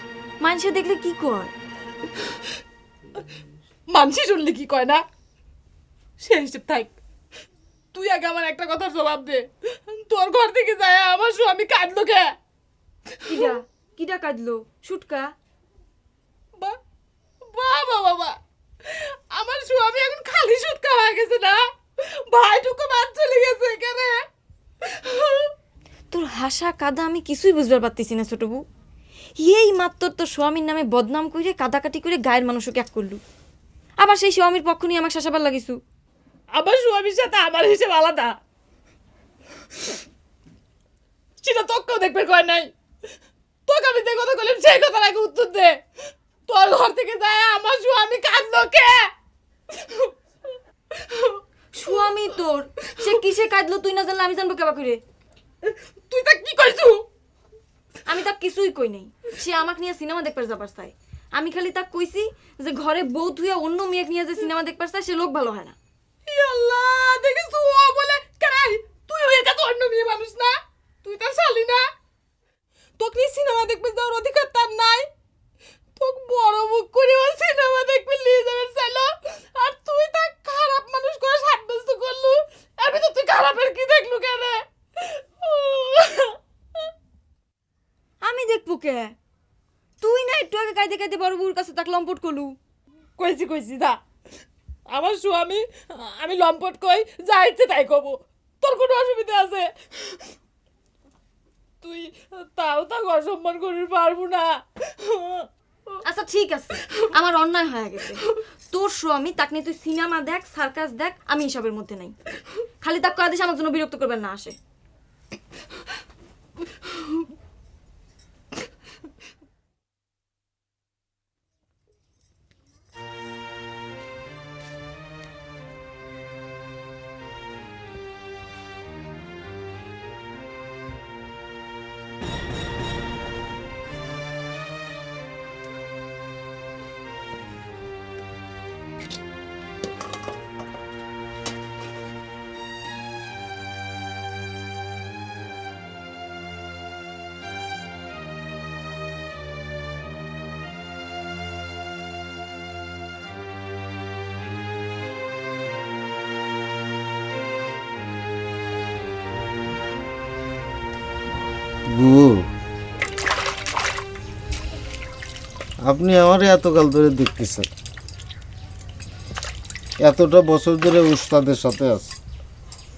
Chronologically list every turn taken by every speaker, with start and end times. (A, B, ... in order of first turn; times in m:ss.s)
0:00.4-0:01.5 A
0:03.9-0:05.0 B
0:06.2-0:06.9 B
0:07.9-0:12.3 B
0:13.2-0:13.5 B
0:13.2-0:15.3 A
0:17.4-0:24.2 B
0:24.8-0:25.5 B
0:26.1-0:28.6 A
0:29.4-0:33.2 A
0:34.0-0:35.8 A
0:36.5-0:38.3 B
0:41.4-0:42.7 B
0:43.7-0:45.8 B
0:46.5-0:49.1 B
0:49.7-0:50.1 B
0:50.9-0:51.4 B
0:51.7-0:55.0 A
0:55.6-0:57.0 B
0:58.0-1:05.8 A
1:06.2-1:11.8 B
1:13.0-1:15.1 B
1:16.0-1:26.9 B
1:28.2-1:29.1 A
1:30.0-1:32.6 A
1:33.2-1:34.0 B
1:34.9-1:40.3 B
1:41.8-1:45.5 B
1:46.0-1:52.1 A
1:52.8-1:54.6 A
2:41.9-2:42.5 C
2:45.8-2:47.7 C
2:50.0-2:52.1 C